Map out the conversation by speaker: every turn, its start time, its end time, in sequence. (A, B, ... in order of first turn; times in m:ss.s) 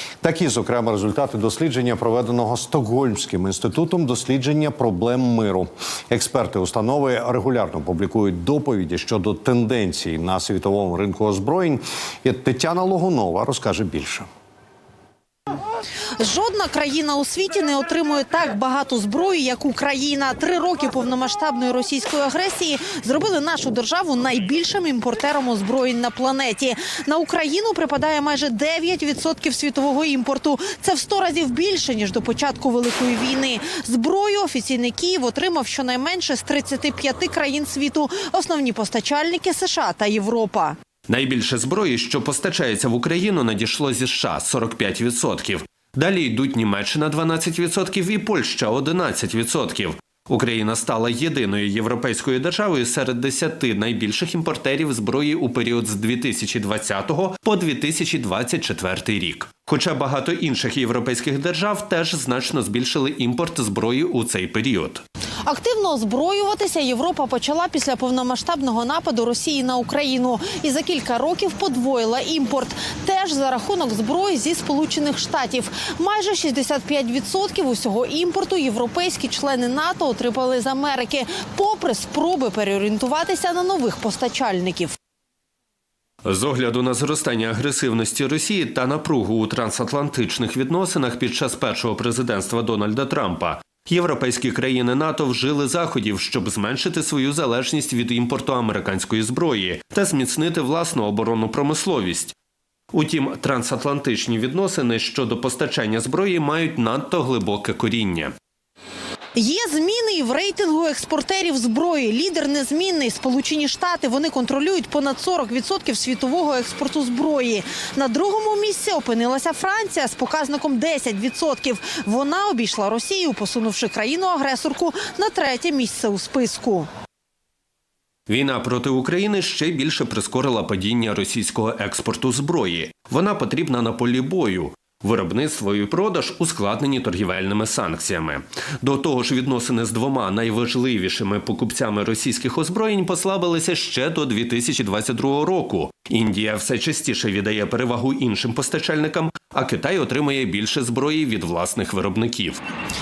0:00.2-0:14.3 A
0:16.2-0:40.8 B
0:41.1-1:05.0 C
1:05.4-1:25.0 B
1:26.2-1:42.4 C
1:42.9-1:48.3 C
1:49.4-2:06.9 B
2:08.3-2:32.6 C